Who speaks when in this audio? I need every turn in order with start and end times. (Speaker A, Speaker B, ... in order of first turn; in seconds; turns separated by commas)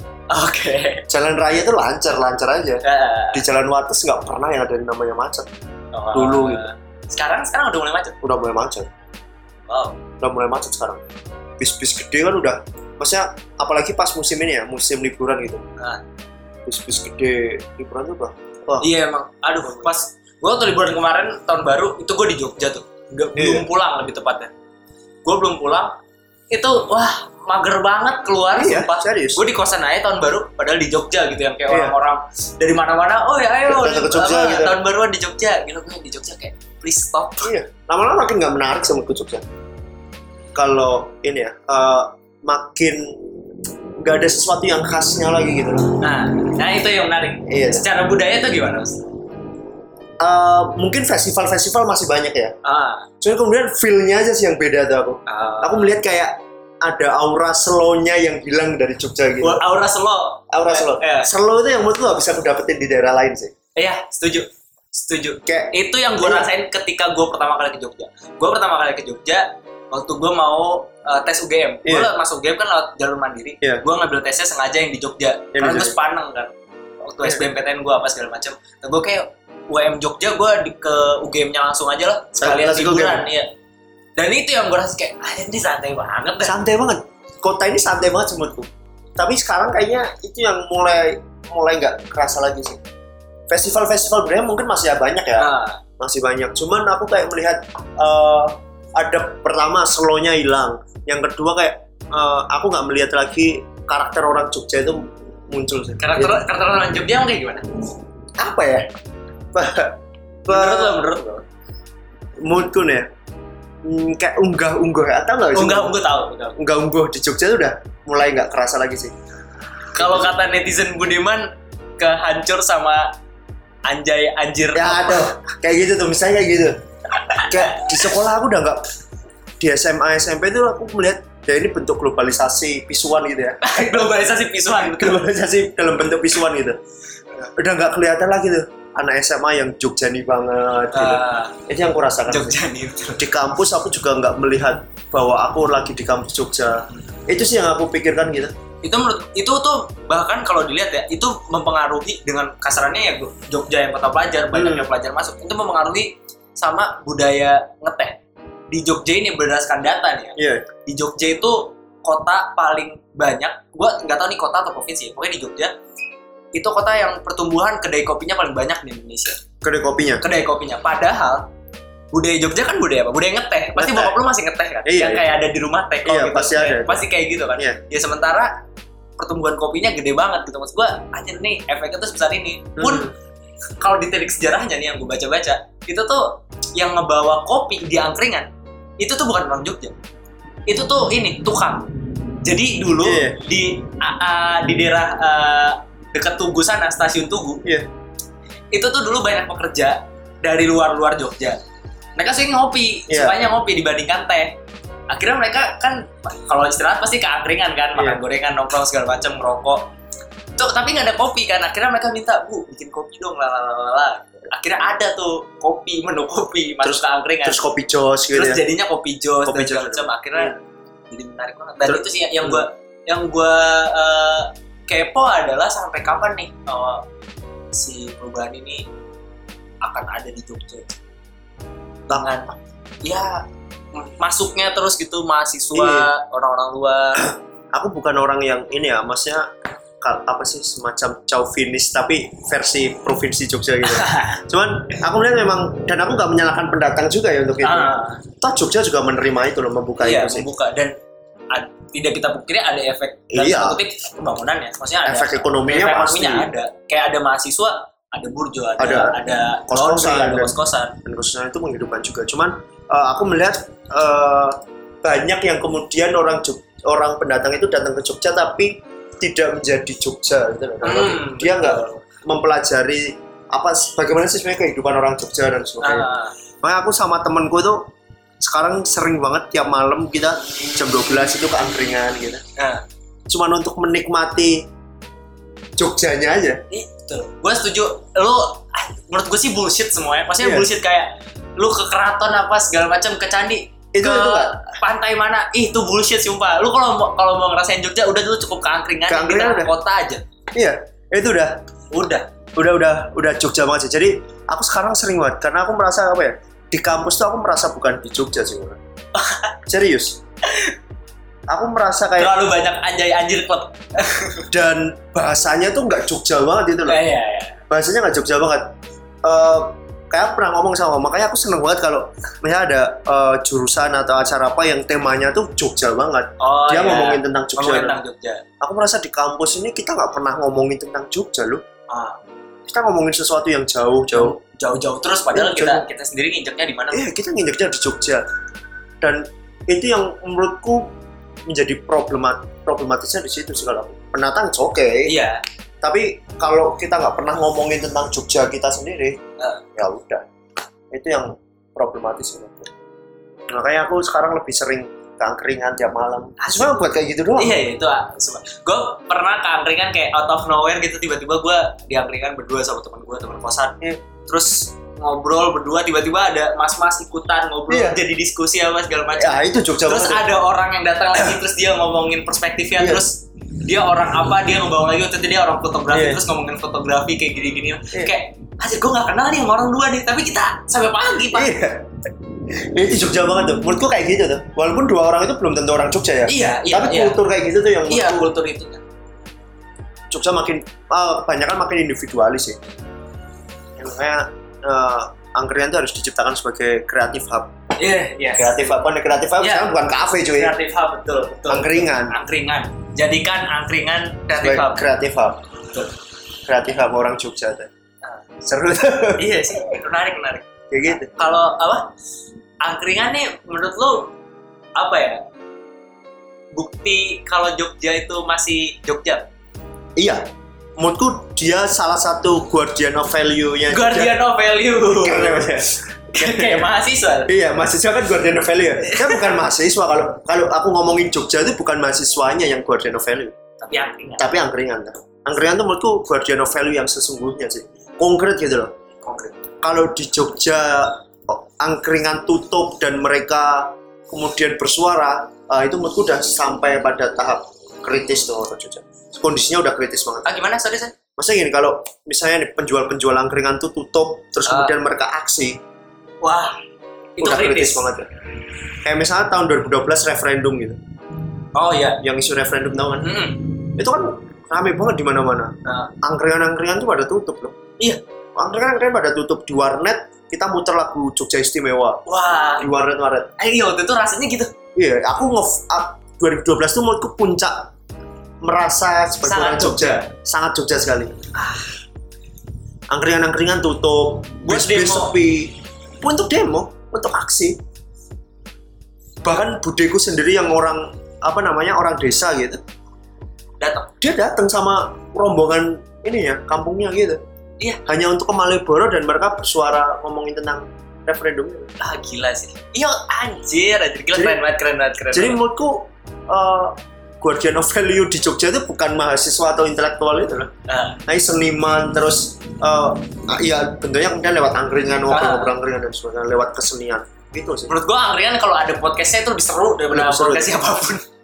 Speaker A: 0.3-1.0, Speaker B: 1.1-5.5, Speaker A: 2.8-3.4, Speaker A: 5.9-8.2, Speaker B: 6.1-6.6, Speaker B: 8.2-8.9, Speaker A: 9.7-10.0, Speaker B: 10.2-11.0, Speaker B: 11.6-15.6, Speaker B: 16.7-18.9, Speaker A: 18.8-24.5, Speaker B: 19.6-19.9, Speaker B: 23.4-23.6, Speaker A: 25.2-25.9, Speaker A: 26.5-37.5, Speaker B: 28.6-29.4, Speaker B: 31.7-31.9, Speaker B: 33.7-34.7, Speaker B: 37.4-39.4, Speaker B: 40.5-43.2, Speaker B: 44.0-46.0, Speaker A: 46.0-49.0, Speaker B: 47.5-47.8, Speaker B: 50.2-52.5, Speaker A: 52.6-53.1, Speaker B: 53.2-59.6, Speaker A: 55.3-55.9, Speaker A: 59.4-61.3, Speaker B: 60.5-63.5, Speaker A: 63.8-76.5, Speaker B: 65.5-66.5, Speaker B: 75.5-75.9, Speaker A: 77.0-83.5, Speaker B: 82.4-83.2, Speaker A: 84.2-86.5, Speaker B: 86.4-92.8, Speaker B: 93.5-95.5, Speaker A: 95.4-95.8, Speaker B: 96.0-106.4, Speaker A: 106.0-107.7, Speaker B: 108.4-108.9, Speaker B: 109.5-110.0, Speaker B: 110.5-111.3, Speaker A: 110.5-111.4, Speaker B: 112.4-113.1, Speaker B: 113.8-115.9, Speaker A: 115.5-116.5, Speaker B: 116.6-119.1, Speaker B: 120.0-120.3, Speaker A: 120.0-123.1, Speaker A: 123.8-125.3, Speaker B: 124.7-126.8, Speaker A: 127.2-128.1, Speaker B: 127.3-128.8, Speaker B: 129.6-134.1, Speaker A: 133.6-135.2, Speaker B: 134.8-136.8, Speaker B: 137.5-142.6, Speaker A: 140.9-141.5, Speaker A: 142.3-143.2, Speaker B: 143.2-148.5, Speaker A: 148.8-158.2, Speaker B: 154.5-154.8, Speaker A: 158.7-165.7, Speaker B: 160.3-160.6, Speaker A: 166.5-169.4, Speaker B: 169.6-170.2, Speaker A: 170.2-171.4, Speaker A: 172.1-178.5, Speaker B: 173.8-174.1, Speaker B: 174.8-175.2, Speaker B: 176.0-177.0, Speaker A: 179.2-183.1, Speaker B: 182.8-183.1, Speaker A: 183.8-188.5, Speaker A: 189.0-189.9, Speaker A: 190.7-191.9, Speaker A: 192.4-197.6, Speaker B: 193.0-193.4, Speaker A: 198.7-201.6, Speaker A: 202.2-204.5, Speaker B: 203.1-203.3, Speaker A: 205.1-209.8, Speaker A: 210.6-217.6, Speaker B: 216.8-218.6, Speaker A: 218.3-220.6, Speaker B: 219.4-220.6, Speaker A: 221.1-227.0, Speaker B: 221.8-222.6, Speaker A: 227.7-228.8, Speaker A: 229.8-231.0, Speaker A: 232.1-232.5, Speaker A: 233.0-237.2, Speaker B: 235.7-236.1, Speaker B: 237.2-239.5, Speaker B: 240.0-250.4, Speaker A: 243.8-244.4, Speaker A: 247.6-248.2, Speaker A: 250.0-250.9, Speaker A: 251.5-260.9, Speaker B: 253.3-253.8, Speaker B: 255.0-256.5, Speaker B: 258.8-259.2, Speaker B: 259.7-276.1, Speaker A: 270.8-272.0, Speaker A: 275.8-276.3, Speaker B: 276.6-277.9, Speaker B: 278.4-282.4, Speaker A: 282.6-282.8, Speaker B: 283.3-284.6, Speaker B: 285.8-286.6, Speaker A: 286.7-300.2, Speaker B: 290.4-290.7, Speaker B: 293.9-294.6, Speaker B: 299.1-299.7, Speaker B: 300.5-301.6, Speaker A: 301.9-302.3, Speaker B: 302.5-308.8, Speaker A: 309.1-309.5, Speaker B: 309.6-310.2, Speaker A: 310.4-310.7, Speaker B: 311.5-312.3, Speaker A: 312.2-314.4, Speaker B: 314.5-317.0, Speaker A: 316.9-317.6, Speaker B: 317.7-318.7, Speaker B: 319.2-328.0, Speaker A: 326.4-328.4, Speaker B: 328.6-331.6, Speaker A: 331.9-332.2, Speaker B: 332.7-334.4, Speaker A: 334.1-337.1, Speaker B: 335.3-335.9, Speaker B: 336.9-338.2, Speaker B: 339.0-340.9, Speaker B: 341.5-345.1, Speaker A: 345.1-345.4, Speaker B: 345.8-349.2, Speaker B: 349.8-350.2, Speaker B: 350.9-352.7, Speaker B: 353.5-357.5, Speaker A: 356.4-356.8, Speaker A: 357.4-381.5, Speaker B: 367.7-368.0, Speaker B: 369.2-370.2, Speaker B: 372.8-373.0, Speaker B: 375.9-376.2, Speaker B: 381.3-381.9, Speaker B: 382.5-388.3, Speaker A: 386.3-387.2, Speaker A: 387.9-388.8, Speaker B: 390.1-392.6, Speaker B: 393.8-397.5, Speaker A: 397.8-398.6, Speaker B: 398.4-400.5, Speaker A: 399.4-399.7, Speaker A: 400.4-404.8, Speaker B: 401.5-402.1, Speaker B: 404.4-405.4, Speaker B: 406.4-407.7, Speaker B: 408.4-409.2, Speaker A: 409.2-410.4, Speaker B: 410.7-411.1, Speaker A: 411.0-411.9, Speaker A: 412.6-414.1, Speaker A: 414.8-415.2, Speaker A: 416.5-419.2, Speaker B: 420.0-420.2, Speaker B: 420.8-424.1, Speaker A: 423.7-425.6, Speaker B: 424.9-426.6, Speaker A: 426.1-427.3, Speaker B: 427.3-433.3, Speaker A: 428.9-429.3, Speaker A: 433.6-434.3, Speaker B: 434.2-438.7, Speaker A: 439.0-439.4, Speaker B: 439.6-450.4, Speaker A: 450.2-450.9, Speaker B: 451.2-455.6, Speaker A: 454.5-454.7, Speaker A: 456.2-456.6, Speaker A: 457.2-457.9, Speaker B: 457.2-458.1, Speaker B: 458.8-460.8, Speaker A: 461.5-462.0, Speaker B: 462.0-463.1, Speaker A: 463.0-463.5, Speaker B: 463.8-467.6, Speaker A: 465.6-465.9, Speaker B: 468.4-472.0, Speaker A: 472.1-472.7, Speaker B: 472.6-473.3, Speaker A: 473.4-474.5, Speaker B: 474.8-477.7, Speaker B: 478.4-481.1, Speaker A: 479.2-480.1, Speaker B: 482.9-487.6, Speaker A: 484.4-485.1, Speaker B: 489.2-492.6, Speaker A: 493.6-493.9, Speaker B: 494.0-497.2, Speaker B: 497.9-501.7, Speaker A: 501.8-505.4, Speaker B: 505.1-510.5, Speaker A: 510.7-511.0, Speaker B: 511.1-517.7, Speaker A: 515.1-515.5, Speaker A: 517.7-521.0, Speaker B: 519.9-520.5